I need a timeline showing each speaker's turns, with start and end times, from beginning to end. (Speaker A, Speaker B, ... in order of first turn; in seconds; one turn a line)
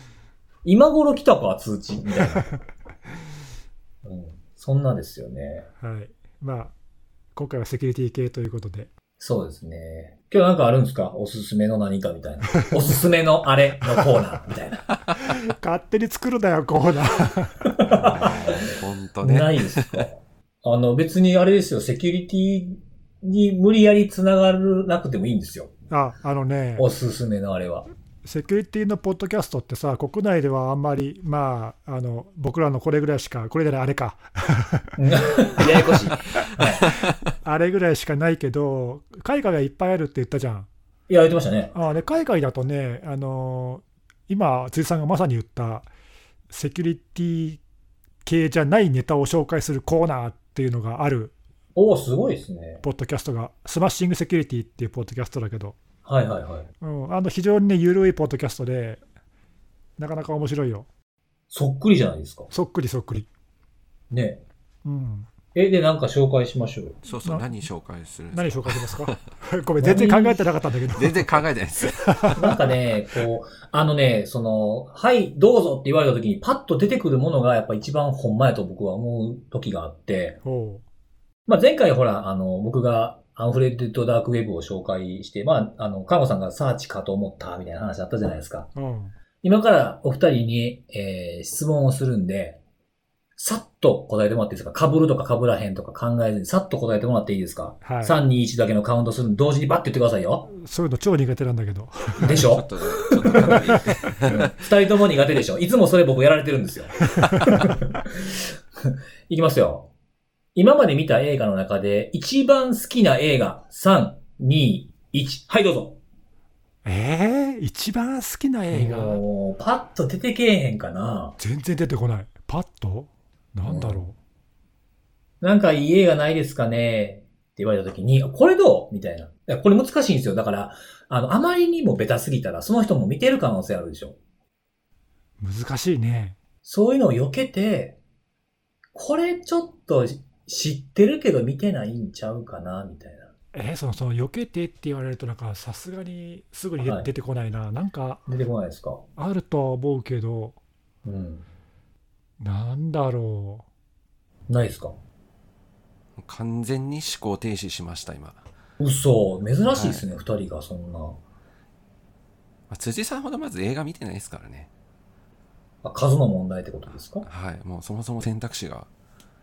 Speaker A: 0.6-2.5
Speaker A: 4.0-5.7
Speaker B: 5.8-6.7
Speaker B: 7.3-8.9
Speaker A: 9.2-14.9
Speaker B: 15.3-17.8
Speaker A: 17.6-25.7
Speaker C: 17.9-20.1
Speaker B: 25.9-26.9
Speaker A: 26.8-27.9
Speaker B: 28.2-35.6
Speaker A: 35.0-36.9
Speaker B: 36.8-40.7
Speaker A: 41.1-41.7
Speaker B: 41.7-45.9
Speaker B: 46.5-47.6
Speaker B: 48.2-51.3
Speaker A: 51.8-52.8
Speaker B: 52.8-55.8
Speaker A: 56.0-56.7
Speaker B: 56.8-59.0
Speaker B: 60.0-60.9
Speaker A: 61.5-62.5
Speaker B: 62.5-63.3
Speaker A: 64.1-64.4
Speaker B: 64.8-65.3
Speaker A: 65.5-67.0
Speaker C: 67.0-69.2
Speaker B: 67.2-67.5
Speaker B: 68.3-71.4
Speaker A: 69.8-70.5
Speaker C: 71.0-72.3
Speaker B: 72.0-72.5
Speaker A: 72.3-80.4
Speaker B: 80.4-80.8
Speaker A: 81.5-88.7
Speaker B: 88.8-89.1
Speaker A: 89.4-92.6
Speaker A: 93.4-100.5
Speaker B: 97.8-98.2
Speaker B: 100.5-102.4
Speaker C: 102.2-104.5
Speaker A: 102.2-103.6
Speaker B: 103.3-104.0
Speaker A: 104.2-109.9
Speaker A: 110.5-116.0
Speaker B: 116.8-119.2
Speaker A: 118.7-121.4
Speaker B: 121.4-124.1
Speaker A: 123.7-124.1
Speaker A: 125.4-134.2
Speaker B: 135.4-136.3
Speaker A: 136.6-138.0
Speaker A: 138.9-143.3
Speaker B: 143.5-148.3
Speaker A: 146.8-147.1
Speaker A: 148.3-149.0
Speaker B: 149.2-150.6
Speaker A: 151.0-151.5
Speaker B: 152.4-153.7
Speaker A: 154.5-154.9
Speaker C: 156.2-158.4
Speaker A: 158.8-161.2
Speaker C: 159.7-160.0
Speaker C: 162.7-164.7
Speaker A: 165.8-167.3
Speaker C: 167.2-168.9